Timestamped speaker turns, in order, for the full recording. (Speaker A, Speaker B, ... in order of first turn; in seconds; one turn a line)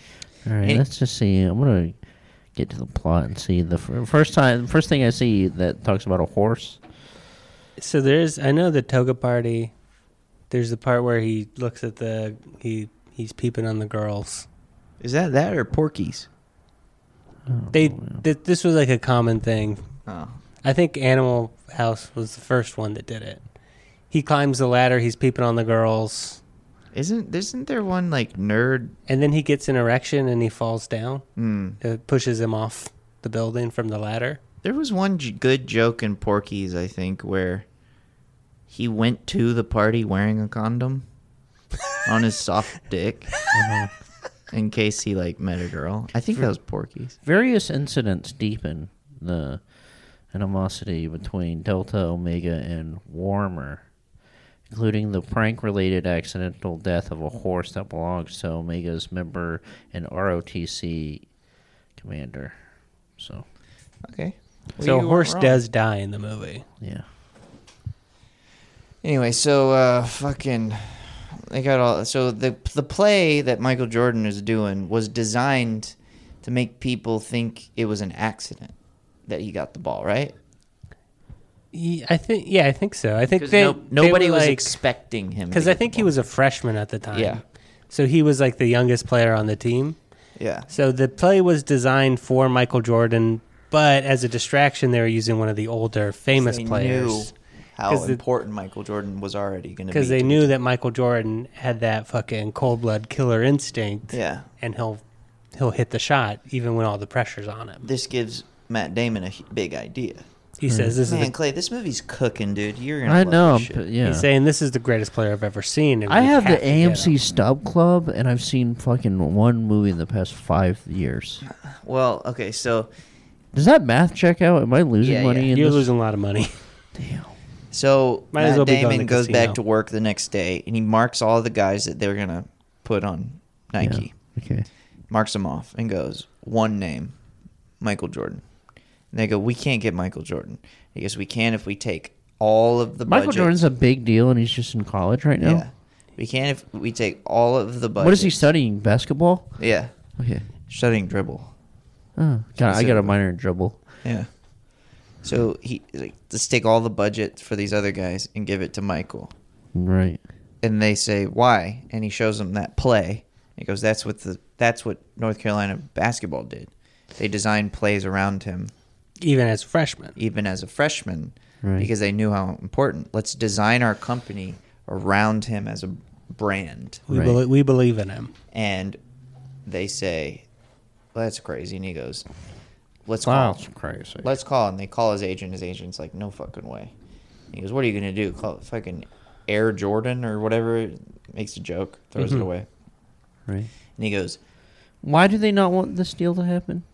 Speaker A: 0.5-2.0
Speaker A: 2.5-6.8
Speaker B: 7.8-9.7
Speaker B: 10.5-14.5
Speaker C: 15.0-16.3
Speaker A: 17.5-18.2
Speaker B: 17.7-19.9
Speaker C: 20.1-20.4
Speaker B: 20.6-23.5
Speaker B: 24.1-26.4
Speaker C: 26.9-28.9
Speaker B: 29.1-31.3
Speaker C: 31.4-31.8
Speaker B: 31.8-34.4
Speaker C: 34.6-37.6
Speaker C: 38.7-41.1
Speaker C: 42.0-43.4
Speaker A: 43.5-43.9
Speaker C: 44.5-47.2
Speaker A: 47.2-49.6
Speaker A: 50.3-53.8
Speaker A: 54.7-61.3
Speaker A: 62.0-62.6
Speaker A: 63.2-63.5
Speaker C: 64.0-65.6
Speaker B: 64.8-66.7
Speaker A: 66.8-67.1
Speaker C: 69.0-78.8
Speaker C: 79.3-80.3
Speaker B: 81.7-84.8
Speaker C: 83.4-86.1
Speaker B: 85.5-90.0
Speaker C: 87.1-87.4
Speaker C: 90.4-90.7
Speaker B: 90.7-97.3
Speaker C: 96.3-100.5
Speaker B: 97.9-98.2
Speaker B: 99.9-105.0
Speaker C: 104.1-104.5
Speaker B: 105.5-107.9
Speaker C: 107.8-110.3
Speaker B: 110.6-111.3
Speaker A: 110.7-111.0
Speaker C: 111.0-113.8
Speaker A: 113.1-114.3
Speaker B: 114.0-117.2
Speaker A: 116.1-121.5
Speaker C: 121.5-122.9
Speaker A: 123.5-125.9
Speaker C: 125.0-125.5
Speaker B: 125.5-126.6
Speaker A: 127.0-127.4
Speaker C: 127.7-134.2
Speaker B: 128.3-129.6
Speaker A: 133.8-134.7
Speaker C: 135.1-137.2
Speaker C: 137.8-138.4
Speaker C: 139.1-143.7
Speaker A: 143.1-145.6
Speaker C: 145.4-148.5
Speaker A: 148.0-149.6
Speaker C: 149.6-149.9
Speaker A: 150.2-150.5
Speaker C: 150.7-151.5
Speaker A: 152.2-153.8
Speaker C: 152.6-153.2
Speaker C: 154.0-154.3
Speaker C: 155.2-159.3
Speaker A: 159.7-160.2
Speaker C: 160.6-168.7
Speaker B: 169.2-170.2
Speaker C: 170.2-177.0
Speaker A: 171.6-171.9
Speaker B: 177.1-178.3
Speaker A: 177.1-177.4
Speaker C: 178.5-179.0
Speaker C: 179.7-180.5
Speaker C: 181.1-182.3
Speaker C: 183.1-183.6
Speaker A: 183.2-184.3
Speaker C: 184.2-186.9
Speaker C: 187.5-192.7
Speaker B: 192.2-192.5
Speaker C: 194.0-194.4
Speaker A: 195.0-196.8